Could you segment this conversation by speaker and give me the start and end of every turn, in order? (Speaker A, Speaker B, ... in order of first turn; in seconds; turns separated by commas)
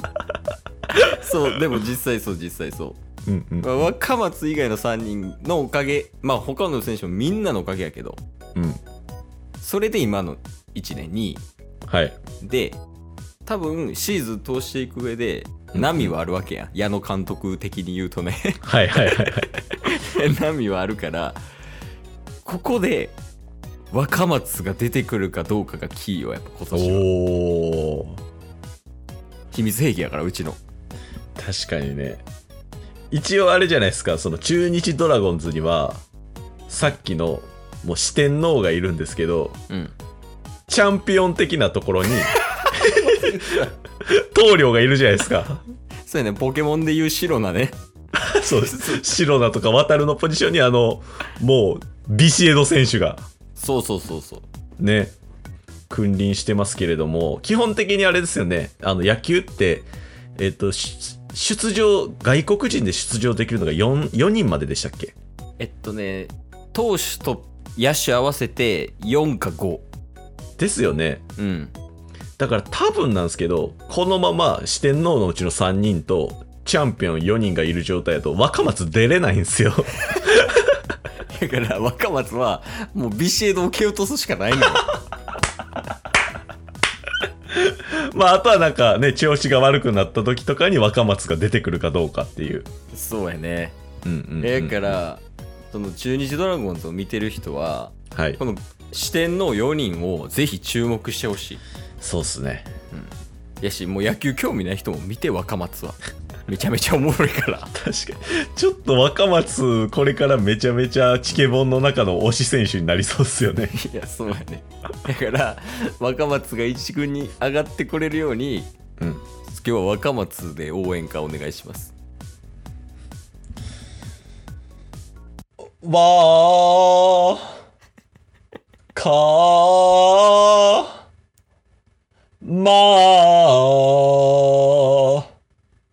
Speaker A: 0.9-3.0, Speaker B: 3.3-3.9, Speaker A: 3.6-8.2, Speaker B: 8.6-8.8, Speaker A: 9.6-11.4, Speaker B: 11.9-12.2, Speaker A: 12.4-12.8, Speaker A: 13.5-21.4, Speaker B: 15.7-16.1, Speaker B: 18.6-19.5, Speaker A: 22.4-23.2, Speaker A: 23.9-27.1, Speaker B: 26.7-28.2, Speaker A: 29.5-30.6, Speaker B: 31.4-32.2, Speaker B: 33.1-36.0, Speaker B: 36.7-39.6, Speaker A: 39.7-40.0, Speaker B: 40.7-45.6, Speaker A: 42.8-43.7, Speaker A: 46.1-47.8, Speaker B: 48.1-53.3, Speaker A: 48.5-49.1, Speaker A: 53.5-54.5, Speaker B: 54.8-55.1, Speaker B: 55.9-65.1, Speaker A: 65.6-69.8, Speaker B: 70.6-71.2, Speaker A: 71.4-71.7, Speaker B: 72.4-80.7, Speaker A: 81.3-85.0, Speaker B: 87.5-92.7, Speaker A: 92.9-93.8, Speaker B: 94.0-95.0, Speaker A: 94.4-101.6, Speaker B: 98.1-98.4, Speaker B: 102.0-102.7, Speaker A: 102.9-107.7, Speaker B: 107.7-113.7, Speaker A: 113.7-118.7, Speaker B: 119.0-119.2, Speaker A: 119.4-121.9, Speaker B: 125.8-127.6, Speaker B: 128.9-131.0, Speaker B: 132.4-135.3